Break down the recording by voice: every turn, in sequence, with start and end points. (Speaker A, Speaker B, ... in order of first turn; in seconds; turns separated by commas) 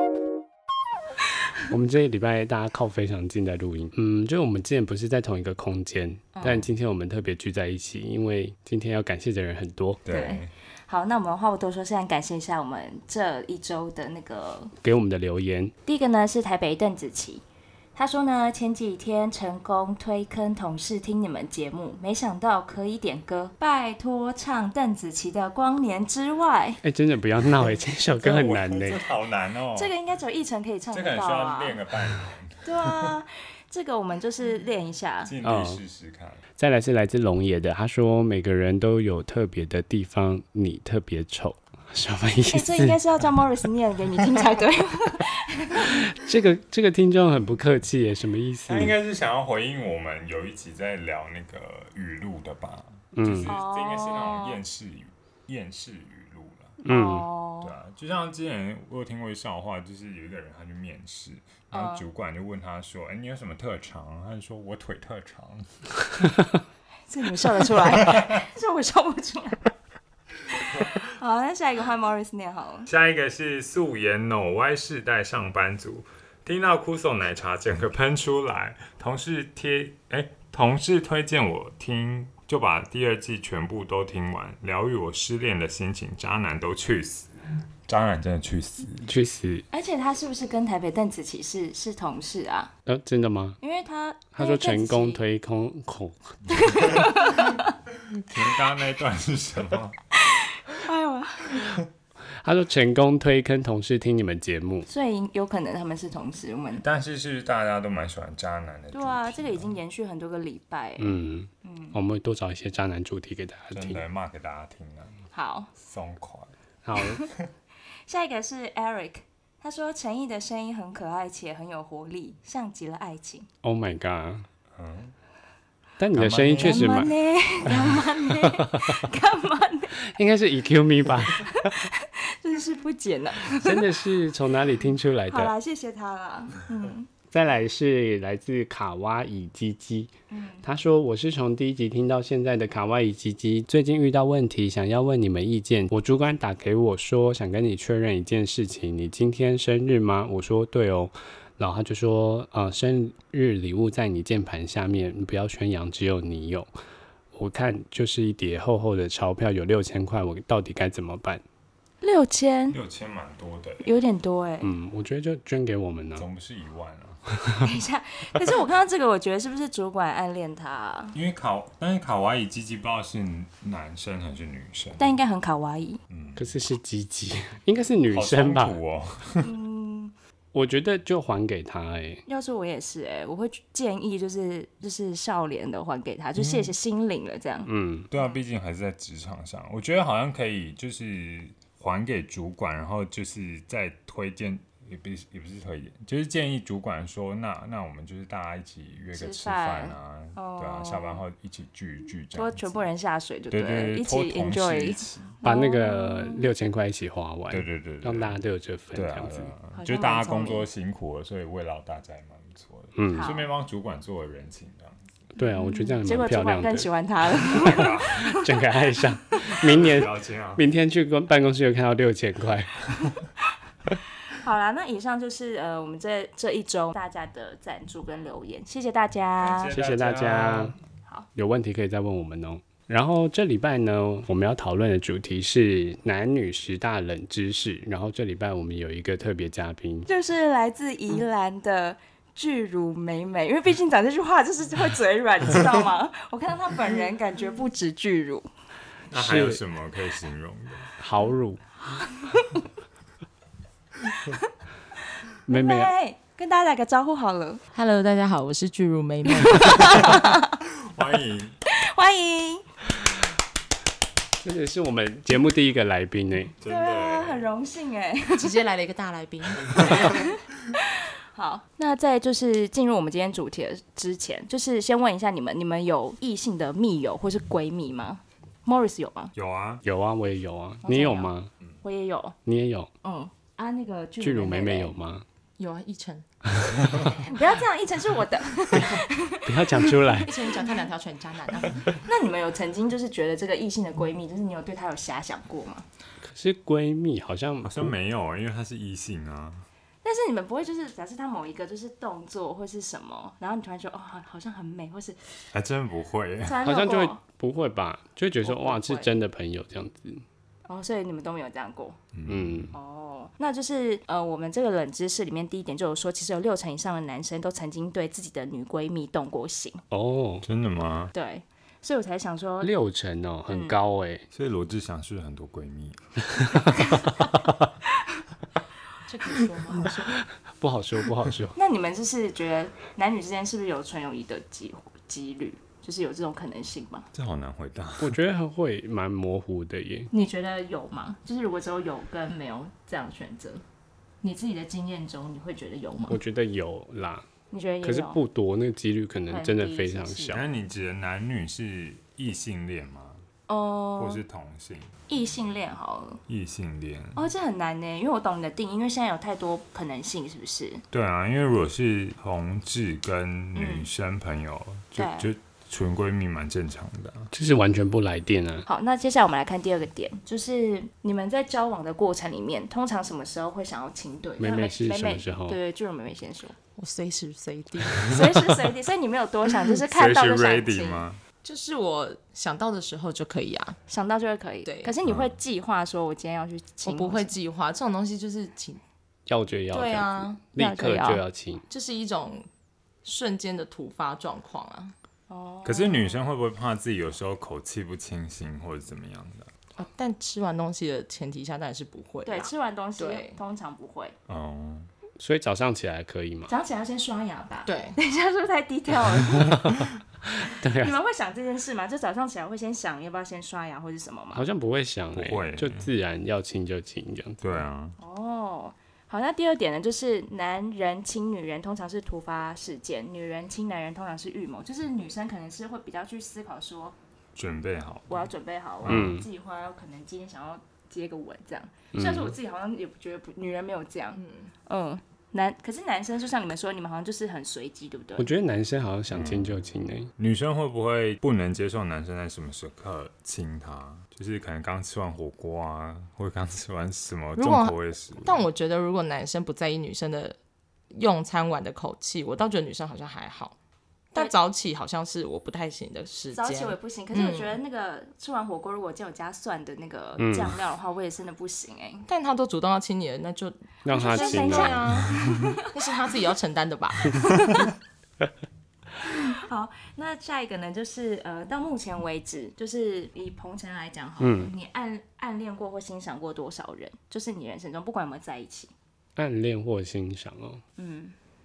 Speaker A: 1.7-10.0, Speaker B: 6.3-6.7, Speaker C: 10.1-10.5, Speaker B: 10.1-14.7, Speaker A: 14.8-15.7, Speaker B: 15.9-17.4, Speaker B: 18.0-26.8, Speaker A: 26.8-29.0, Speaker C: 28.2-29.9, Speaker B: 29.8-31.8, Speaker C: 30.9-33.1, Speaker B: 32.6-35.3, Speaker C: 35.2-36.4, Speaker A: 35.4-35.8, Speaker A: 36.6-43.0, Speaker B: 42.5-46.0, Speaker A: 45.9-48.9, Speaker C: 48.7-56.8, Speaker A: 53.1-53.5, Speaker B: 53.5-54.6, Speaker A: 56.8-57.3, Speaker B: 56.9-57.7, Speaker C: 57.6-65.8, Speaker B: 61.7-62.0, Speaker B: 67.1-69.7, Speaker C: 68.0-68.3, Speaker B: 70.5-72.9, Speaker C: 72.9-89.1, Speaker A: 89.0-89.7, Speaker B: 89.7-92.7, Speaker A: 92.9-93.6, Speaker B: 93.6-95.2, Speaker A: 94.3-96.8, Speaker B: 96.5-97.7, Speaker C: 98.1-100.0, Speaker B: 100.2-101.8, Speaker A: 102.4-104.9, Speaker B: 104.9-106.8, Speaker C: 106.8-109.8, Speaker B: 108.9-112.0, Speaker A: 111.0-114.0, Speaker C: 113.7-115.2, Speaker B: 115.3-115.7, Speaker C: 115.8-116.5, Speaker A: 116.8-117.2, Speaker B: 118.1-123.5, Speaker A: 123.6-124.5, Speaker C: 124.8-125.1, Speaker A: 126.0-127.1, Speaker C: 126.1-127.0, Speaker B: 126.5-130.0, Speaker A: 128.5-129.0, Speaker A: 130.0-131.8, Speaker B: 131.4-133.9, Speaker A: 133.5-135.5, Speaker B: 135.3-137.1, Speaker A: 137.3-140.1, Speaker B: 140.3-140.6, Speaker A: 140.6-156.7, Speaker A: 157.3-161.4, Speaker B: 162.0-162.8, Speaker C: 162.7-163.9, Speaker B: 163.8-164.7, Speaker A: 164.6-166.3, Speaker C: 166.2-167.2, Speaker B: 167.6-171.2, Speaker C: 171.1-175.2, Speaker B: 175.0-176.0, Speaker C: 176.1-176.6, Speaker A: 176.4-178.8, Speaker C: 178.1-179.5, Speaker B: 179.4-180.2, Speaker A: 180.5-182.2, Speaker B: 182.3-188.3, Speaker A: 187.7-188.1, Speaker C: 188.1-202.8, Speaker B: 199.2-201.2, Speaker B: 202.3-206.5, Speaker C: 203.5-205.4, Speaker A: 205.4-209.5, Speaker C: 207.5-208.4, Speaker C: 208.9-215.2, Speaker B: 209.7-210.7, Speaker A: 213.0-213.3, Speaker B: 213.1-213.5, Speaker A: 215.4-216.9, Speaker B: 215.4-219.5, Speaker C: 217.5-218.3, Speaker A: 217.8-223.1, Speaker C: 219.8-220.6, Speaker B: 224.3-229.8, Speaker C: 229.4-230.8, Speaker A: 229.7-230.8, Speaker A: 231.3-240.1, Speaker B: 240.1-248.5, Speaker C: 249.1-250.9, Speaker A: 249.1-249.6, Speaker A: 251.0-251.6, Speaker B: 251.9-252.6, Speaker B: 255.5-257.6, Speaker A: 255.5-255.9, Speaker D: 257.7-260.3, Speaker B: 259.3-260.5, Speaker C: 260.1-261.6, Speaker B: 261.7-262.7, Speaker A: 264.4-266.5, Speaker C: 266.6-267.5, Speaker B: 266.6-268.6, Speaker D: 268.4-270.1, Speaker C: 269.7-270.1, Speaker B: 269.9-279.3, Speaker C: 279.4-279.8, Speaker A: 279.8-281.5, Speaker B: 280.8-281.3, Speaker B: 281.8-282.4, Speaker A: 282.5-282.9, Speaker B: 283.0-284.9, Speaker A: 284.2-285.2, Speaker D: 285.6-286.2, Speaker B: 287.2-290.8, Speaker A: 289.4-290.3, Speaker D: 290.2-291.9, Speaker B: 291.9-295.9, Speaker A: 296.2-297.9, Speaker C: 297.6-299.6, Speaker B: 300.0-305.5, Speaker C: 305.5-306.6, Speaker B: 306.4-307.2, Speaker A: 306.6-310.2, Speaker B: 308.4-309.1, Speaker B: 310.7-312.0, Speaker C: 312.1-312.7, Speaker A: 312.3-312.7, Speaker B: 312.7-319.8, Speaker A: 319.9-320.5, Speaker C: 320.4-321.1, Speaker B: 321.1-322.7, Speaker A: 322.6-324.3, Speaker B: 323.5-323.8, Speaker C: 324.3-326.8, Speaker D: 329.1-330.0, Speaker A: 330.3-331.6, Speaker B: 331.6-337.1, Speaker C: 337.1-338.2, Speaker A: 338.0-340.1, Speaker B: 340.1-343.6, Speaker B: 344.2-346.2, Speaker A: 346.1-347.3, Speaker B: 347.5-348.2, Speaker A: 347.8-350.4, Speaker B: 349.3-350.4, Speaker C: 350.3-353.2, Speaker B: 353.5-354.2, Speaker C: 354.0-354.9, Speaker B: 355.1-356.2, Speaker C: 356.3-357.3, Speaker B: 357.2-360.8, Speaker C: 360.9-367.3, Speaker B: 363.6-363.9, Speaker B: 365.0-365.3, Speaker A: 367.3-368.7, Speaker B: 368.7-376.6, Speaker A: 374.4-375.6, Speaker D: 376.8-378.2, Speaker B: 378.0-381.1, Speaker C: 379.9-381.2, Speaker D: 381.4-383.8, Speaker B: 383.9-387.3, Speaker D: 384.6-384.9, Speaker C: 385.0-385.3, Speaker D: 386.8-388.8, Speaker A: 389.3-391.6, Speaker D: 389.7-390.4, Speaker B: 390.6-391.2, Speaker D: 391.7-392.5, Speaker D: 393.0-394.9, Speaker B: 395.3-396.2, Speaker C: 395.6-399.5, Speaker D: 399.8-403.4, Speaker B: 402.2-404.1, Speaker C: 404.3-404.9, Speaker A: 405.2-406.5, Speaker B: 406.5-409.9, Speaker D: 407.7-408.0, Speaker A: 410.4-410.9, Speaker B: 410.5-414.4, Speaker A: 414.3-417.6, Speaker C: 415.1-415.9, Speaker C: 417.4-418.0, Speaker B: 418.0-427.0, Speaker C: 427.4-428.3, Speaker B: 428.1-438.3, Speaker C: 428.8-429.2, Speaker A: 428.9-429.3, Speaker A: 431.9-432.4, Speaker D: 434.2-434.5, Speaker A: 438.2-440.1, Speaker C: 439.1-439.6, Speaker C: 440.2-448.5, Speaker D: 447.4-450.4, Speaker D: 450.9-453.6, Speaker D: 454.1-457.6, Speaker B: 456.3-462.1, Speaker A: 460.2-460.6, Speaker D: 462.1-467.7, Speaker A: 463.8-465.1, Speaker B: 463.9-465.8, Speaker B: 467.3-467.7, Speaker B: 469.0-478.7, Speaker A: 474.2-474.5, Speaker A: 479.2-480.6, Speaker B: 480.8-481.1